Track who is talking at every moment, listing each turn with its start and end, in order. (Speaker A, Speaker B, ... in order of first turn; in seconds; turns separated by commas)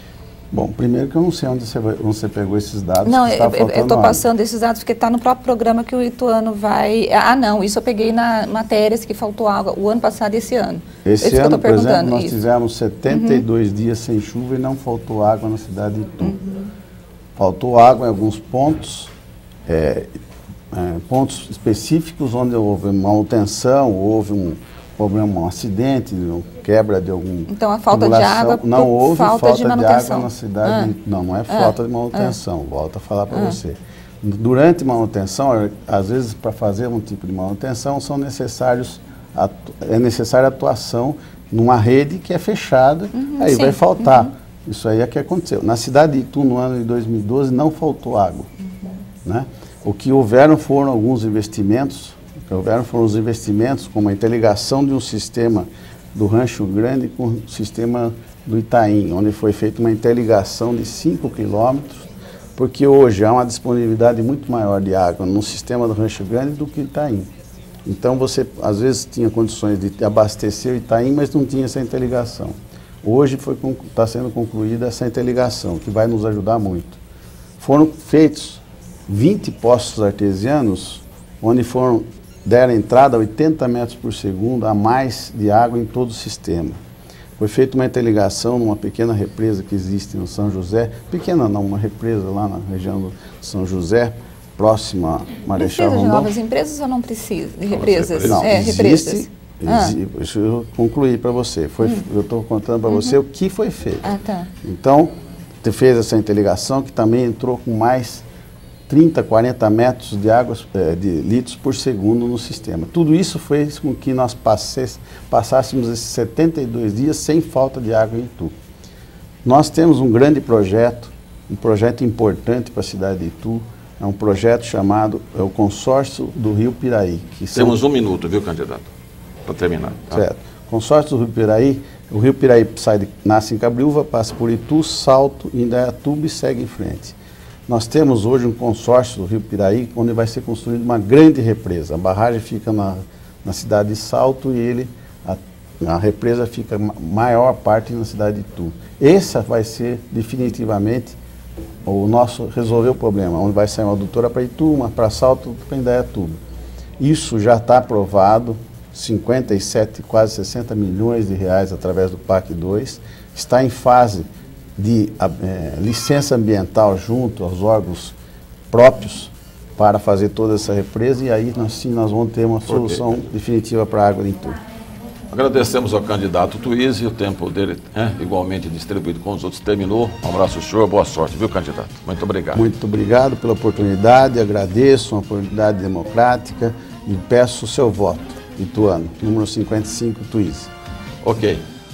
Speaker A: 0.5-4.2, Speaker B: 3.0-12.4, Speaker A: 11.1-16.4, Speaker B: 13.1-13.4, Speaker B: 16.2-16.7, Speaker A: 17.4-19.1, Speaker A: 19.7-20.1, Speaker A: 20.7-48.5, Speaker B: 27.5-30.9, Speaker B: 31.5-32.4, Speaker B: 33.3-33.6, Speaker B: 43.1-44.3, Speaker A: 49.2-67.3, Speaker A: 67.8-77.0, Speaker A: 77.6-86.8, Speaker A: 87.4-96.3, Speaker B: 95.6-100.0, Speaker C: 97.7-98.6, Speaker A: 98.2-104.1, Speaker B: 102.9-103.2, Speaker B: 104.0-104.5, Speaker A: 104.6-108.2, Speaker A: 108.9-118.5, Speaker A: 119.4-127.8, Speaker C: 127.5-128.9, Speaker C: 129.5-130.2, Speaker A: 130.1-137.2, Speaker A: 137.7-151.2, Speaker A: 151.8-156.4, Speaker A: 157.0-168.2, Speaker A: 168.7-174.6, Speaker C: 172.7-173.0, Speaker C: 175.3-182.7, Speaker A: 182.5-190.7, Speaker C: 191.2-191.6